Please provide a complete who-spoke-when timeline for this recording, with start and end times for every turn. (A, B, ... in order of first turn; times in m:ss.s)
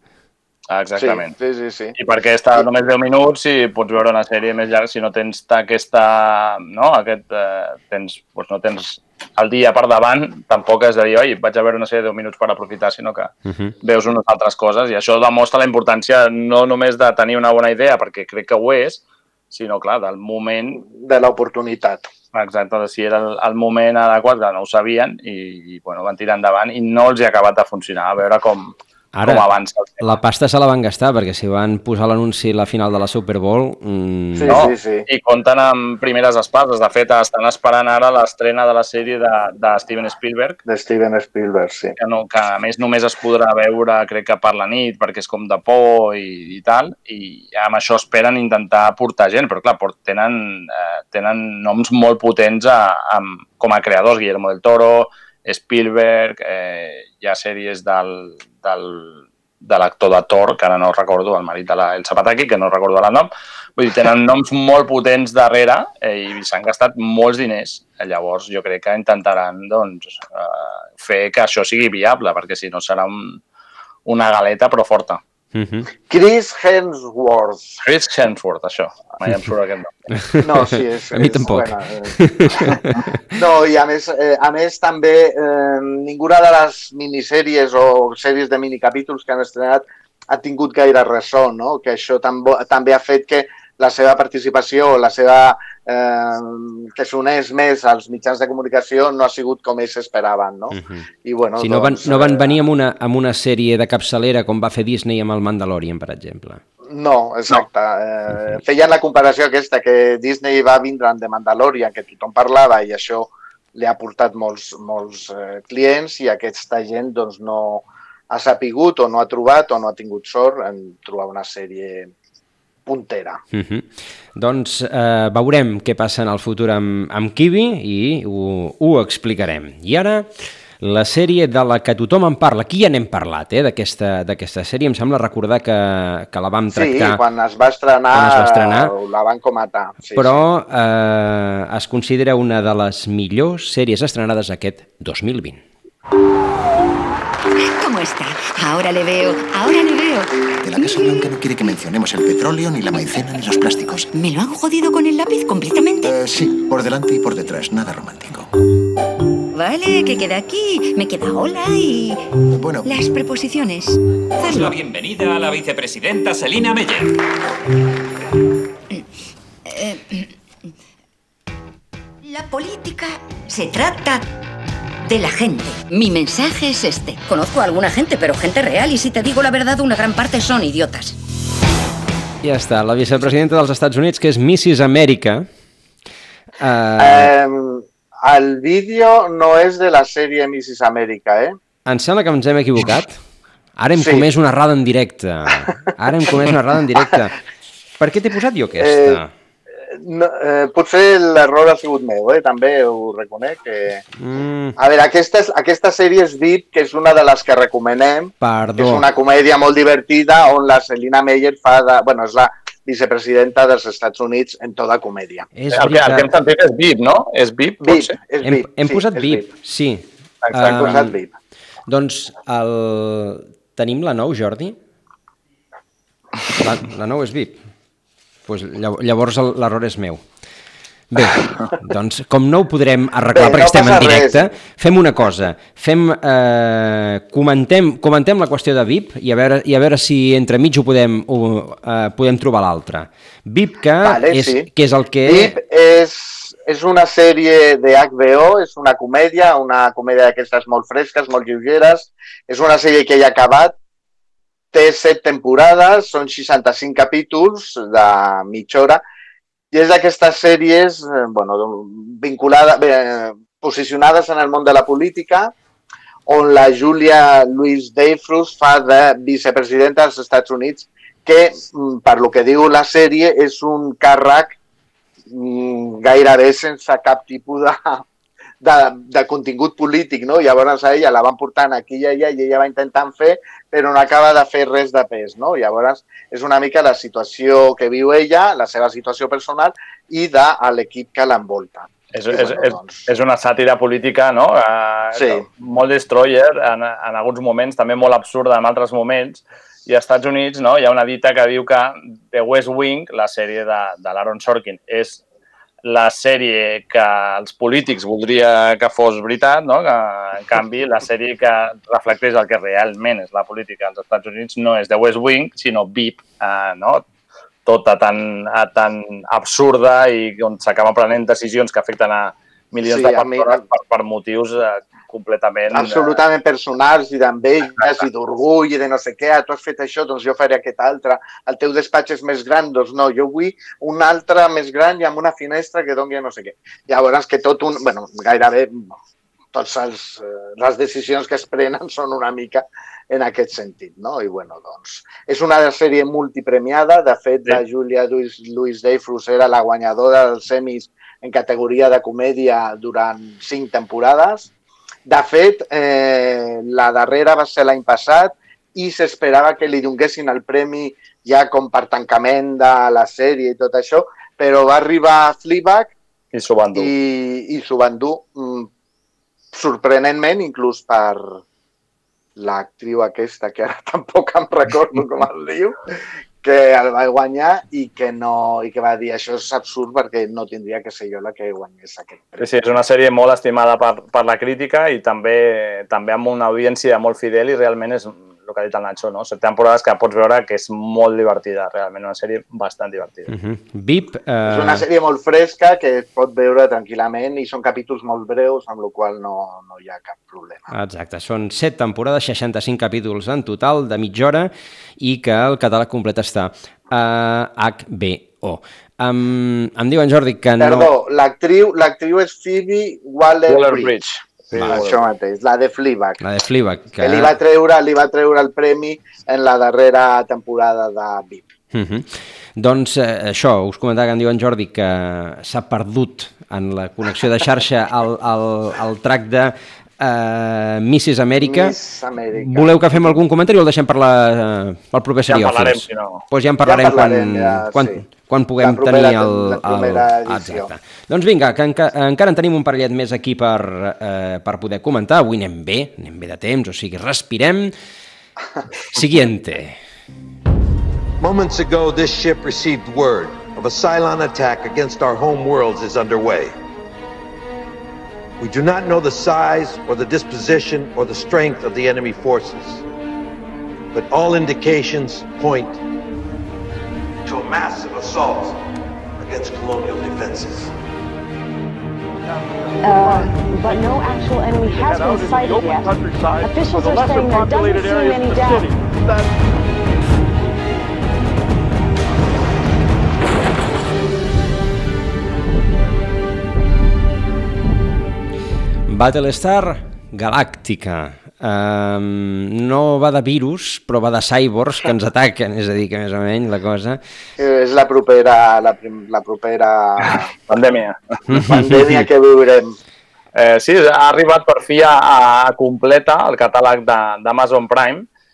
0:00.7-0:01.3 A
0:01.0-0:02.0 B
0:02.0-0:20.8 A
0:13.4-0:13.8 C
0:20.8-0:22.1 B
0:22.3-0:30.1 A
0:29.1-0:29.4 C
0:30.0-0:34.6 C
0:34.4-0:35.1 B
0:34.5-0:40.6 A
0:40.7-0:42.0 B
0:42.0-1:13.4 A
1:14.1-1:15.2 A
1:15.6-1:15.9 C
1:16.1-1:17.8 B
1:17.8-1:20.0 A
1:20.2-1:23.2 C
1:20.4-1:22.8 B
1:23.4-1:42.5 B
1:40.7-1:41.1 C
1:41.6-1:46.6 C
1:46.9-2:02.1 B
2:02.9-2:03.4 B
2:03.5-2:10.3 C
2:10.8-2:17.2 C
2:16.7-2:20.4 B
2:18.1-2:18.9 C
2:20.2-2:25.6 C
2:27.6-2:31.0 D
2:30.6-2:34.1 E
2:34.1-2:36.2 D
2:36.0-2:38.5 E
2:39.5-2:42.2 D
2:42.5-2:42.9 E
2:42.8-2:44.8 D
2:44.5-2:47.1 F
2:49.7-2:50.3 D
2:52.2-2:54.2 D
2:55.0-3:01.1 D
3:02.4-3:05.5 C
3:06.6-3:07.3 C
3:07.0-3:11.6 B
3:11.9-3:13.2 C
3:13.8-3:17.4 C
3:14.0-3:14.3 B
3:18.0-3:19.3 C
3:18.8-3:19.2 B
3:19.9-3:24.0 B
3:24.2-3:24.8 C
3:24.8-3:35.5 B
3:28.4-3:29.0 C
3:35.6-3:36.3 C
3:35.7-3:38.2 A
3:37.8-3:39.5 B
3:38.4-3:41.2 C
3:40.4-3:40.9 A
3:40.6-3:41.3 B
3:41.9-3:44.8 C
3:46.6-3:47.6 C
3:48.5-3:50.2 C
3:51.1-4:05.6 C
3:53.3-3:54.5 B
4:04.0-4:04.7 B
4:05.2-4:13.7 B
4:14.7-4:19.0 B
4:19.7-4:25.5 B
4:26.3-4:34.6 B
4:35.3-4:38.0 B
4:38.6-4:53.0 B
4:52.1-5:05.2 A
4:55.2-4:55.4 B
5:05.8-5:17.0 A
5:17.6-5:26.2 A
5:22.8-5:23.6 B
5:25.7-5:39.0 B
5:39.5-5:54.5 B
5:55.1-6:06.0 B
6:06.3-6:06.9 A
6:06.8-6:08.7 B
6:09.5-6:11.4 B
6:12.4-6:15.8 B
6:16.4-6:22.5 B
6:22.4-6:33.3 A
6:33.3-6:34.8 C
6:34.5-6:40.7 B
6:40.7-6:50.9 C
6:50.6-6:54.0 B
6:53.5-6:55.0 A
6:54.6-6:54.9 C
6:54.6-6:56.2 B
6:56.2-6:57.3 C
6:57.0-7:01.4 B
7:01.7-7:11.8 C
7:11.4-7:13.2 B
7:12.4-7:27.7 C
7:15.3-7:16.2 A
7:16.6-7:18.0 B
7:18.6-7:20.7 B
7:28.9-7:29.8 C
7:31.2-7:36.5 G
7:38.4-7:42.8 G
7:43.9-7:45.8 G
7:47.2-7:48.6 G
7:49.2-7:50.7 G
7:52.8-7:58.7 H
8:08.9-8:17.0 C
8:17.4-8:20.3 B
8:20.5-8:21.0 A
8:21.3-8:22.1 C
8:21.4-8:22.7 B
8:23.3-8:28.1 A